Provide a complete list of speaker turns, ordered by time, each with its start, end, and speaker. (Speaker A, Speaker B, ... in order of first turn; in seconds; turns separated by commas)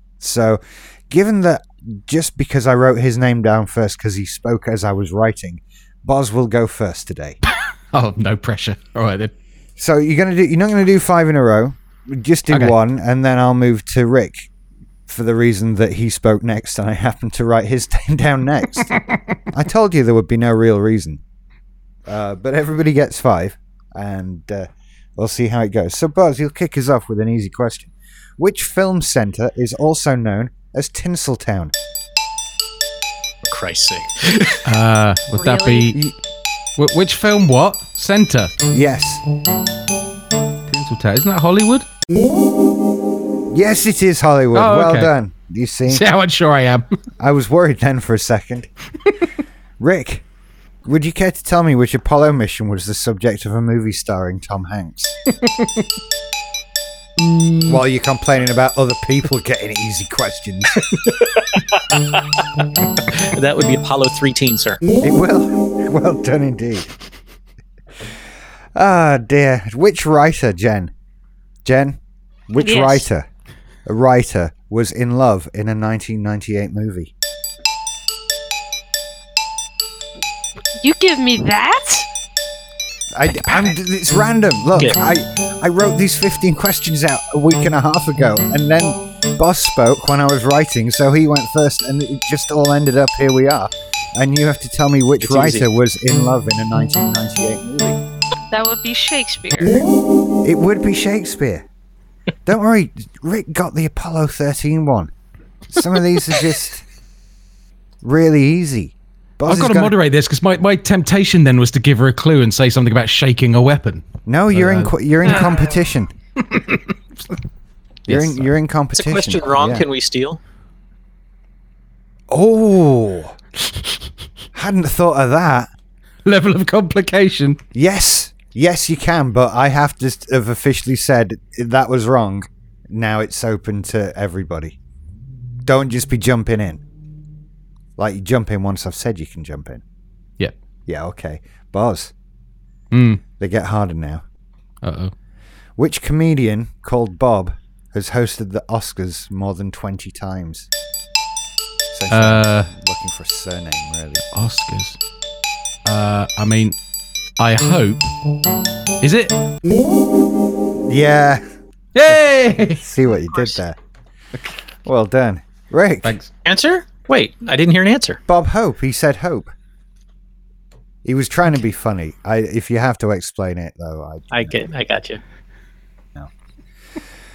Speaker A: 0.2-7.4, Speaker B: 7.9-9.3, Speaker A: 9.8-14.5, Speaker B: 12.5-12.7, Speaker A: 15.1-18.9, Speaker B: 18.8-19.3, Speaker A: 19.5-21.2, Speaker A: 22.1-31.7, Speaker C: 33.4-34.8, Speaker B: 34.6-36.0, Speaker D: 35.4-35.9, Speaker B: 36.8-38.5, Speaker A: 38.7-39.2, Speaker B: 40.7-41.9, Speaker A: 43.5-46.0, Speaker B: 44.5-45.1, Speaker B: 45.9-46.9, Speaker A: 47.2-48.7, Speaker A: 49.8-50.2, Speaker A: 50.8-55.1, Speaker B: 55.6-55.8, Speaker C: 57.2-57.8, Speaker A: 57.7-60.8, Speaker C: 60.7-62.4, Speaker C: 63.0-64.8, Speaker A: 65.0-66.9, Speaker A: 68.8-70.9, Speaker A: 71.6-72.0, Speaker A: 72.5-73.2, Speaker D: 72.6-73.0, Speaker A: 73.8-77.1, Speaker D: 80.8-82.1, Speaker A: 83.1-98.0, Speaker C: 95.2-95.7, Speaker D: 98.5-99.8, Speaker A: 100.4-101.7, Speaker A: 102.5-105.1, Speaker A: 105.7-106.8, Speaker A: 108.0-110.0, Speaker B: 109.5-114.9, Speaker A: 114.3-116.1, Speaker D: 115.2-115.7, Speaker B: 116.4-117.4, Speaker B: 118.1-118.5, Speaker A: 118.1-119.8, Speaker C: 118.9-120.4, Speaker A: 122.3-123.3, Speaker B: 123.7-124.0, Speaker A: 124.5-125.7, Speaker B: 126.2-127.6, Speaker A: 127.7-134.8, Speaker A: 135.6-136.8, Speaker A: 138.0-139.8, Speaker A: 140.9-142.1, Speaker B: 142.9-143.2, Speaker A: 143.4-144.2, Speaker B: 144.8-145.1, Speaker A: 145.8-150.7, Speaker A: 151.9-154.2, Speaker B: 152.1-152.7, Speaker B: 154.2-155.0, Speaker B: 155.8-156.8, Speaker B: 157.4-158.1, Speaker B: 159.0-159.3, Speaker A: 160.8-161.4, Speaker B: 161.9-162.8, Speaker A: 162.7-163.8, Speaker D: 163.0-163.6, Speaker A: 164.8-166.2, Speaker B: 166.0-166.3, Speaker C: 166.4-168.2, Speaker A: 168.3-169.5, Speaker A: 171.0-174.5, Speaker C: 174.3-175.2